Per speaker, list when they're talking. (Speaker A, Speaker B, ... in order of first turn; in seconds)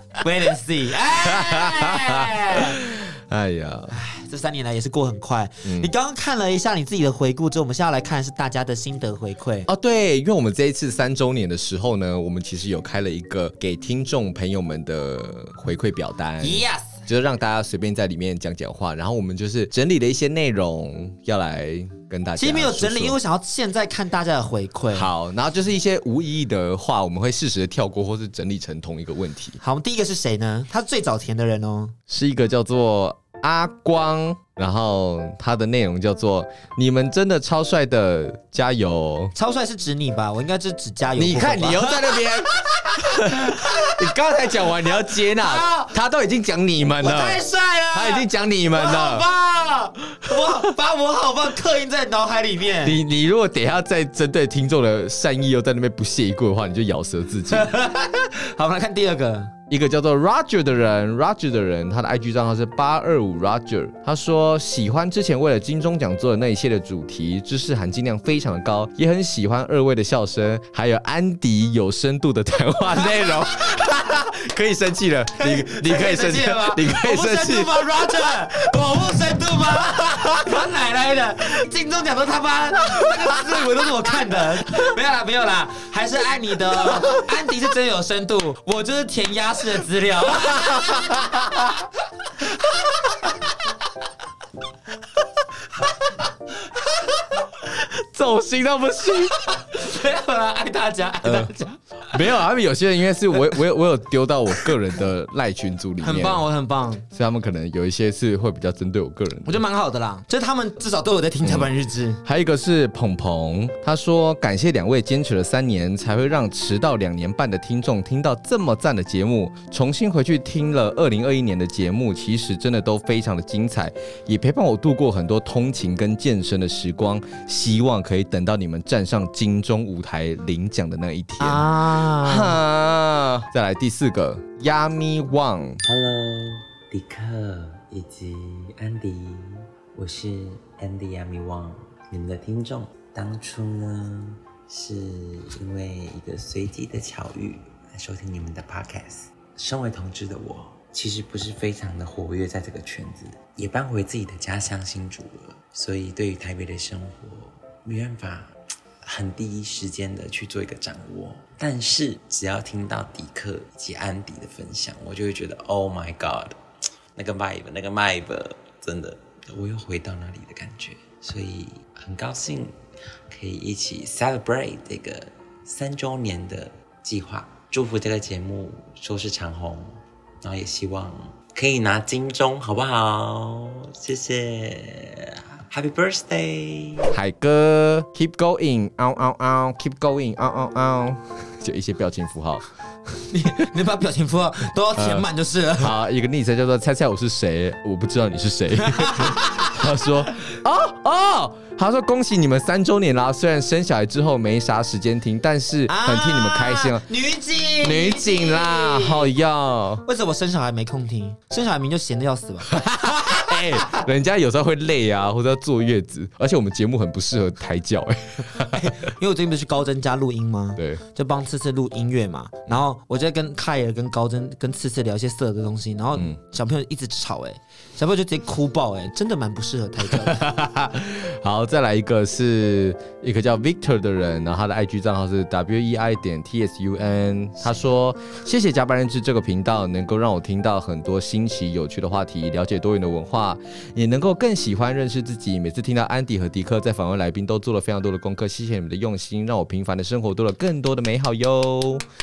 Speaker A: 0.2-2.8, 3.9-9.7, 16.4-17.0, 22.4-25.1, 29.6-31.9, 39.3-44.1, 45.2-45.9, 47.0-53.0, 57.5-59.5, 75.4-91.2, 99.5-102.2, 106.0-107.0, 109.4-112.2, 131.4-132.6, 193.3-195.9, 198.8-199.7, 205.9-209.3, 210.0-213.4, 218.6-230.5
Speaker B: 1.2-4.0, 5.6-5.9, 9.7-23.2, 24.9-29.6, 32.1-39.3, 41.1-47.4, 47.9-49.3, 52.8-57.7, 59.7-79.1, 90.4-91.7, 97.9-99.5, 101.2-101.5, 102.1-106.4, 107.1-109.6, 111.4-111.7, 112.2-135.8, 187.1-192.7, 194.9-195.3, 195.8-207.0, 207.8-210.0, 212.7-218.9, 220.8-221.0, 230.1-252.0
Speaker C: 135.8-166.6, 167.2-172.8, 173.3-187.2